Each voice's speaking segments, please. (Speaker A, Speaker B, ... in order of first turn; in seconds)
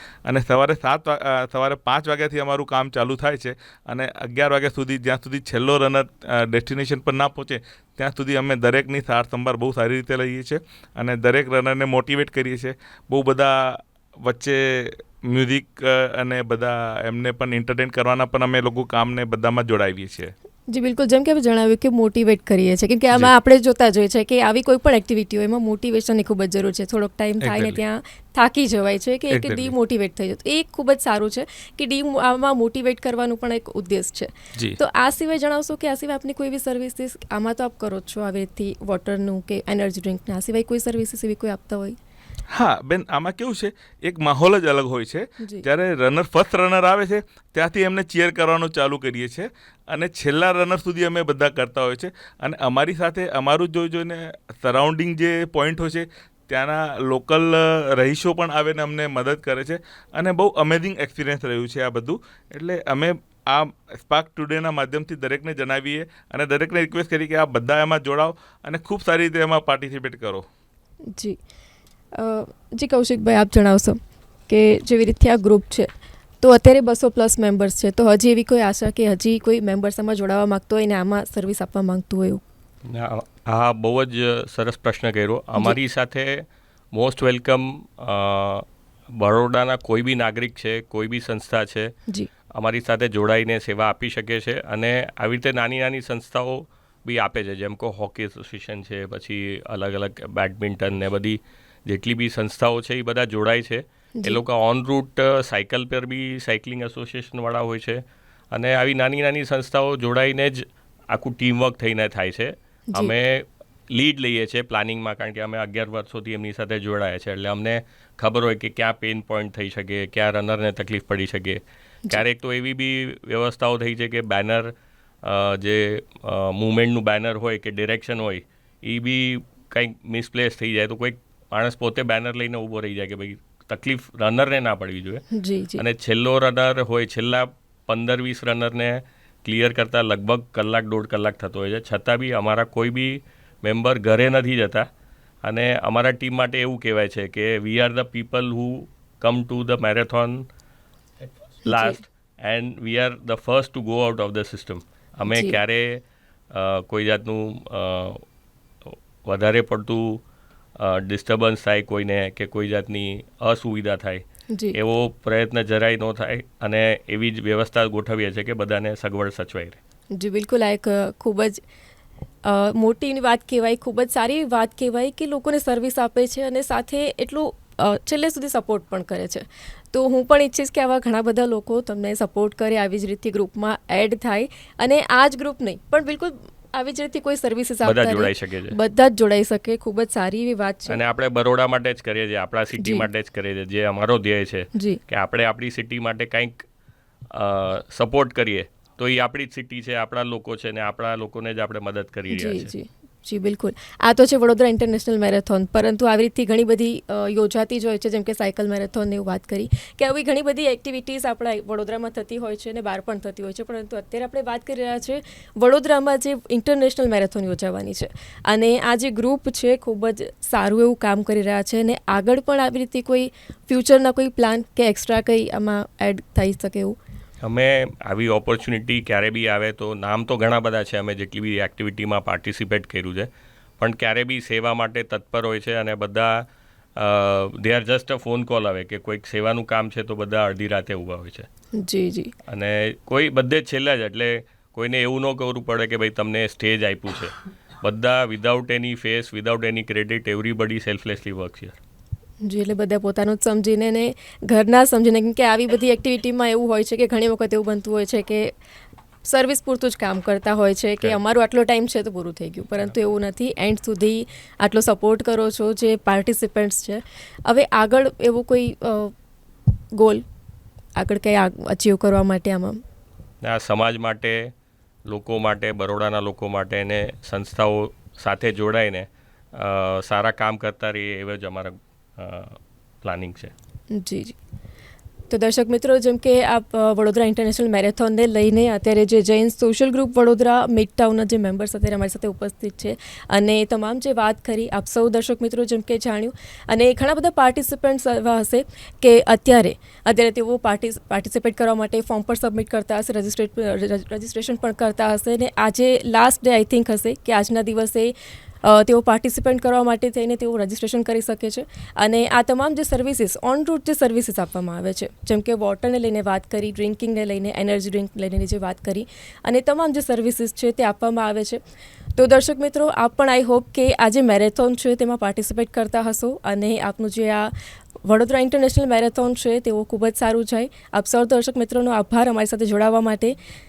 Speaker A: 0.2-20.3, 27.4-27.8, 29.3-29.7, 42.5-70.4
Speaker B: 20.7-42.0, 72.1-75.9, 76.4-82.4, 135.3-135.8, 151.7-152.0, 155.3-155.6, 170.1-171.6, 172.4-191.0, 192.8-193.1, 194.7-195.0, 202.3-226.9, 241.8-242.3, 252.4-258.5, 259.2-269.1, 269.9-270.2, 271.0-272.8, 283.9-284.4, 285.3-321.6, 322.1-333.4
Speaker C: 82.9-86.4, 86.9-88.6, 89.2-91.9, 92.6-124.7, 125.2-144.8, 145.4-150.4, 151.6-158.2, 158.8-160.2, 160.8-164.2, 164.7-169.8, 187.8-188.8, 190.9-196.6, 197.3-202.7, 227.4-236.4, 237.0-241.5, 242.5-251.8, 273.4-274.5, 275.1-283.5